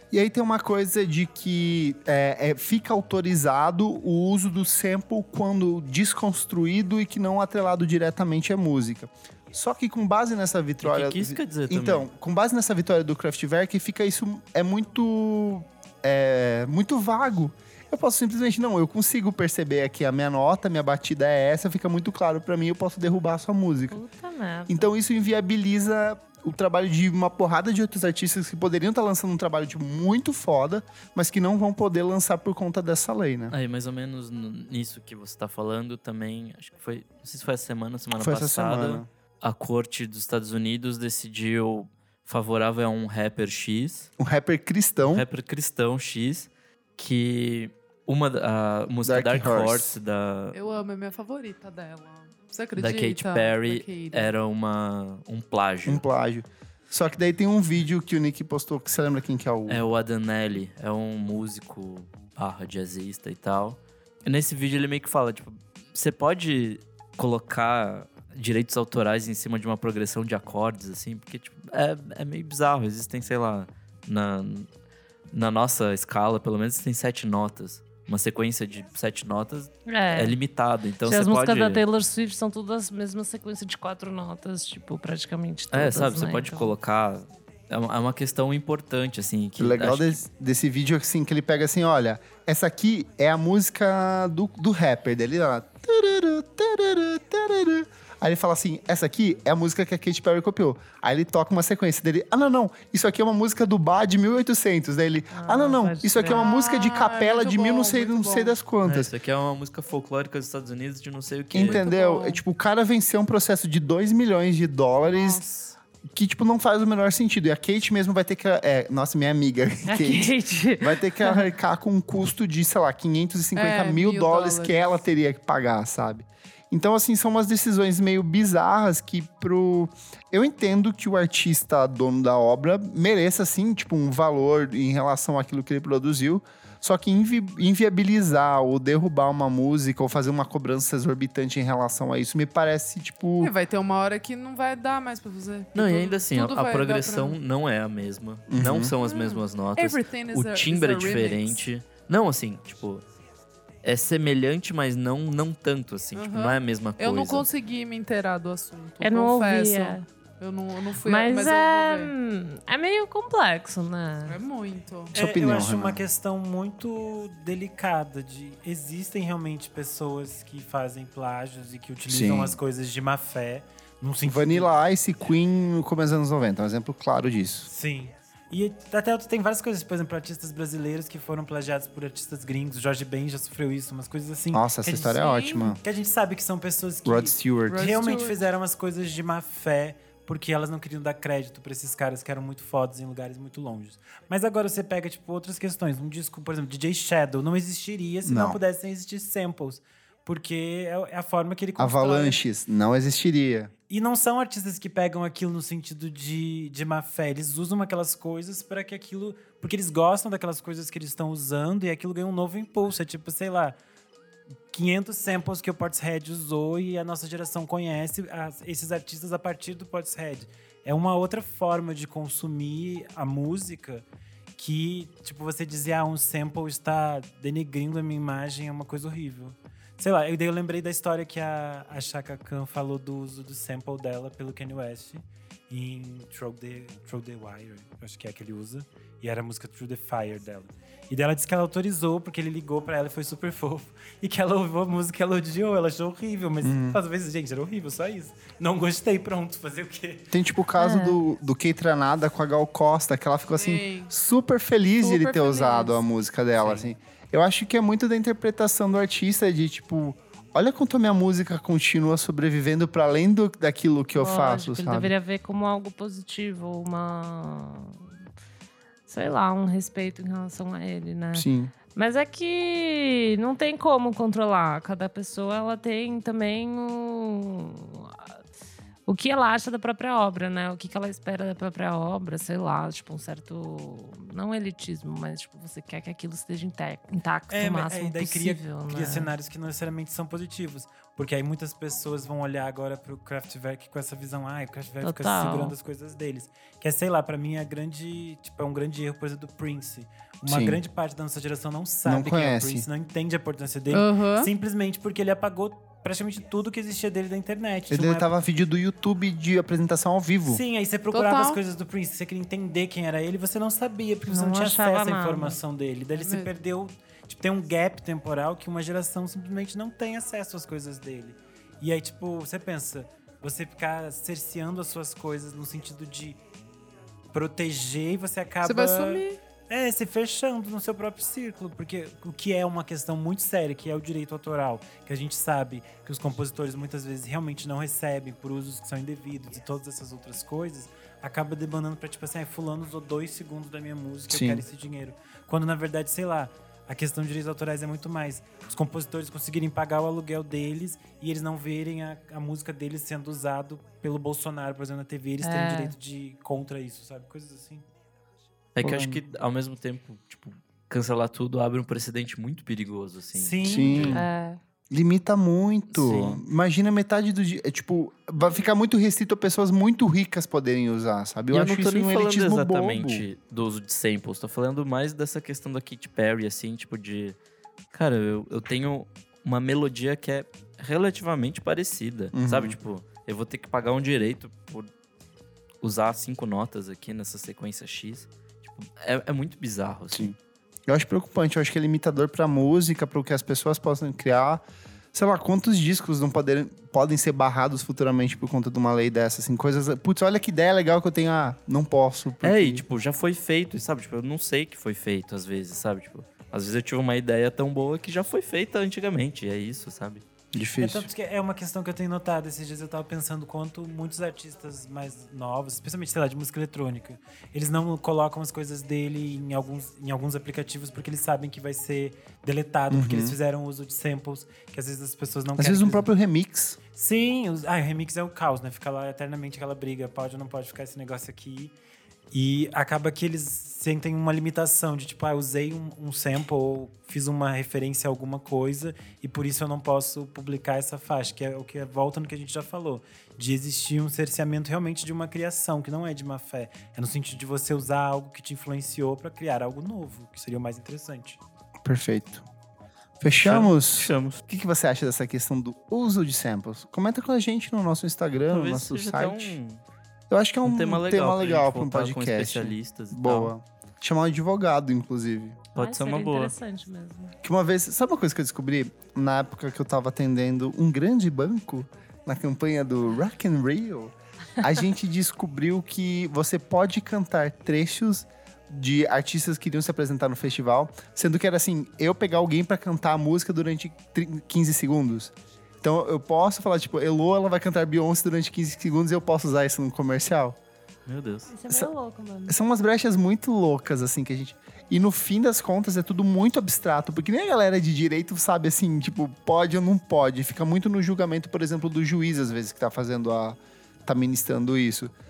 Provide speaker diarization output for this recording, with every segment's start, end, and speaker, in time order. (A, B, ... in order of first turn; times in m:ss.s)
0:00.1-0:24.0 A
0:10.8-0:12.1 B
0:23.9-0:24.8 C
0:24.7-0:33.6 A
0:33.5-0:44.1 B
0:38.2-0:39.1 A
0:44.2-0:45.2 A
0:45.0-0:50.6 B
0:49.0-0:50.0 A
0:50.5-0:54.3 D
0:52.8-0:56.0 B
0:55.9-0:59.8 A
0:59.7-1:14.7 B
1:15.3-1:21.8 B
1:19.9-1:20.4 C
1:21.0-1:26.8 C
1:25.7-1:30.2 B
1:29.6-1:49.1 A
1:45.3-1:46.5 C
1:46.3-1:48.6 D
1:48.8-1:51.8 B
1:51.5-1:55.4 A
1:51.6-1:52.4 D
1:55.2-1:55.7 C
1:56.1-2:23.5 A
1:59.9-2:01.5 C
2:03.6-2:04.9 D
2:23.4-2:27.4 D
2:25.8-2:33.0 B
2:28.5-2:28.9 A
2:29.0-2:31.6 D
2:33.8-2:37.5 B
2:36.2-2:42.1 D
2:39.0-2:40.1 C
2:41.0-2:44.4 C
2:44.3-2:45.2 D
2:45.1-2:46.0 A
2:45.1-2:54.7 E
2:52.1-2:52.6 A
2:54.2-2:57.7 A
2:57.6-3:22.4 E
3:04.5-3:05.8 A
3:05.2-3:05.8 D
3:07.0-3:07.9 A
3:07.7-3:08.4 D
3:18.2-3:18.6 A
3:21.8-3:23.7 A
3:23.9-3:33.8 E
3:34.7-3:44.0 E
3:44.6-4:10.3 E
4:06.6-4:07.0 A
4:10.3-4:25.1 A
4:10.8-4:11.2 C
4:13.5-4:14.1 D
4:15.0-4:16.0 D
4:16.6-4:16.9 E
4:24.2-4:28.1 C
4:29.1-4:38.2 C
4:31.3-4:31.7 A
4:39.1-4:49.3 C
4:47.5-5:08.3 E
4:55.0-4:55.8 C
5:00.5-5:00.8 A
5:02.1-5:02.9 A
5:03.9-5:04.5 D
5:07.9-5:10.6 A
5:10.4-5:26.4 E
5:11.1-5:11.6 D
5:14.3-5:15.6 C
5:16.2-5:16.5 D
5:27.3-5:57.9 E
5:28.6-5:29.4 D
5:44.3-5:44.6 A
5:55.4-5:56.0 C
5:58.8-6:04.2 B
5:58.8-5:59.2 E
5:58.8-5:59.1 A
6:03.3-6:04.2 E
6:03.6-6:04.2 A
6:04.1-6:04.6 C
6:04.9-6:13.2 A
6:05.9-6:06.4 B
6:11.5-6:17.4 B
6:17.9-6:24.9 B
6:22.3-6:22.8 A
6:25.8-6:30.3 B
6:30.9-6:42.8 A
6:42.4-6:50.2 B
6:50.5-6:51.1 A
6:50.8-7:06.1 E
7:02.9-7:03.4 A
7:05.6-7:06.8 A
7:06.9-7:11.7 E
7:12.3-7:31.4 E
7:31.8-7:32.4 A
7:33.2-7:39.6 A
7:33.4-7:34.4 B
7:38.5-7:39.8 B
7:40.3-7:45.6 A
7:40.6-7:43.5 B
7:45.7-7:46.6 B
7:45.8-7:47.4 C
7:47.4-8:10.6 A
8:11.1-8:11.5 B
8:11.5-8:12.6 C
8:12.5-8:25.1 A